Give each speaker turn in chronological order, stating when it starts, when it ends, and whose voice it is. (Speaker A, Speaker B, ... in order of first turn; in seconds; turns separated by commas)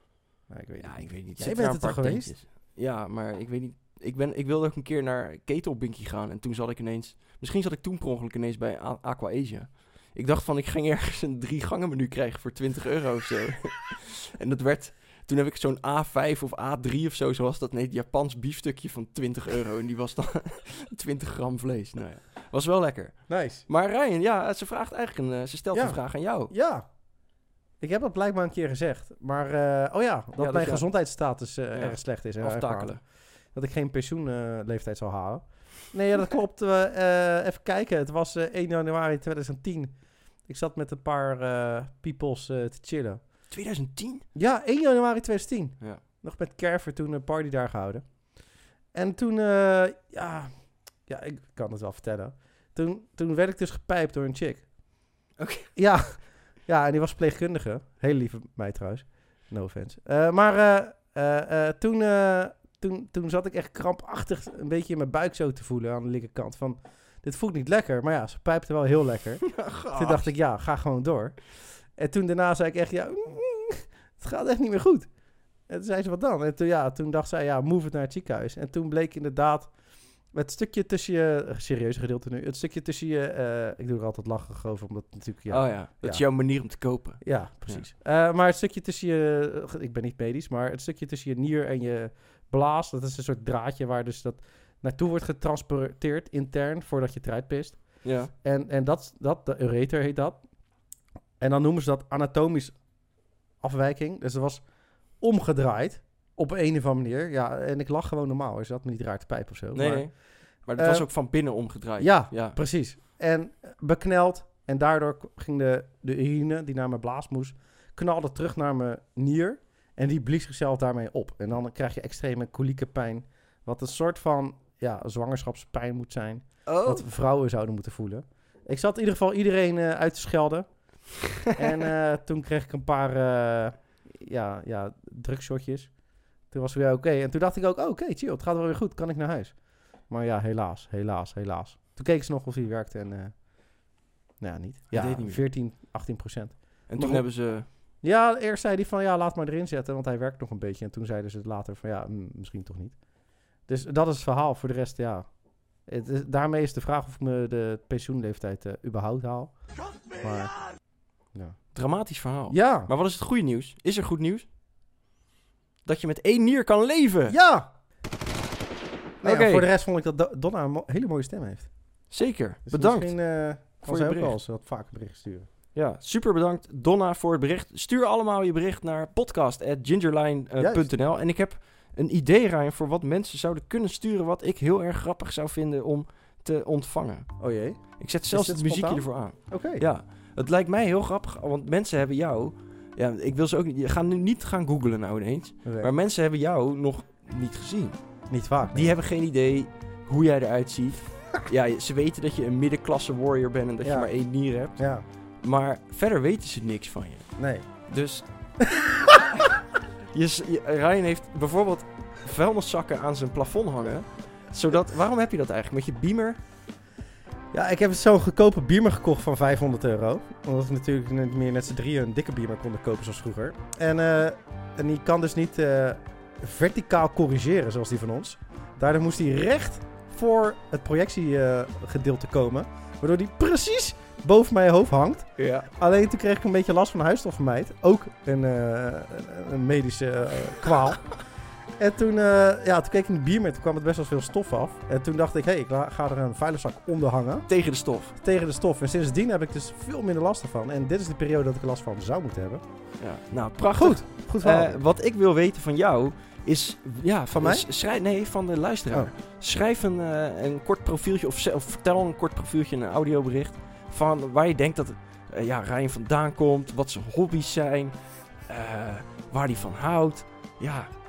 Speaker A: 0.5-2.4, Speaker B: 0.8-26.5, Speaker A: 23.3-23.6, Speaker A: 25.7-26.9, Speaker A: 27.8-43.2, Speaker B: 30.4-30.9, Speaker B: 31.7-33.0, Speaker B: 43.5-44.3, Speaker A: 44.4-48.1, Speaker A: 48.9-50.5, Speaker A: 51.1-54.7, Speaker B: 55.4-55.7, Speaker A: 55.8-75.1, Speaker B: 69.5-70.3, Speaker A: 75.7-79.7, Speaker A: 80.3-86.2, Speaker B: 85.5-87.9, Speaker A: 87.2-100.5, Speaker B: 98.0-98.3, Speaker A: 101.4-102.8, Speaker A: 103.6-104.6, Speaker A: 105.2-110.2, Speaker B: 109.7-112.6, Speaker A: 110.8-111.1, Speaker A: 112.0-130.7, Speaker B: 126.7-127.1, Speaker A: 131.6-135.9, Speaker A: 136.5-143.9, Speaker A: 144.4-153.0, Speaker B: 144.9-145.4, Speaker B: 146.9-147.7, Speaker A: 153.7-155.3, Speaker A: 155.8-159.6, Speaker A: 160.2-160.6, Speaker A: 161.3-161.6, Speaker B: 161.7-164.5, Speaker A: 162.5-162.9, Speaker B: 165.8-167.4, Speaker A: 167.3-167.7, Speaker B: 169.2-169.7, Speaker A: 169.2-171.7, Speaker B: 172.1-174.3, Speaker A: 172.7-175.5, Speaker B: 175.8-187.3, Speaker A: 180.6-180.9, Speaker A: 187.4-189.8, Speaker B: 188.0-198.0, Speaker A: 195.6-195.9, Speaker A: 198.3-198.9, Speaker B: 198.7-204.9, Speaker A: 203.8-204.1, Speaker A: 204.7-205.1, Speaker B: 205.4-208.3, Speaker A: 207.4-207.7, Speaker A: 208.7-209.4, Speaker B: 210.1-216.4, Speaker A: 217.5-241.2, Speaker B: 235.4-235.7, Speaker A: 241.8-247.5, Speaker B: 247.5-248.1, Speaker A: 248.2-252.6, Speaker B: 253.0-267.9, Speaker A: 253.8-254.8, Speaker A: 257.4-257.7, Speaker B: 268.5-270.9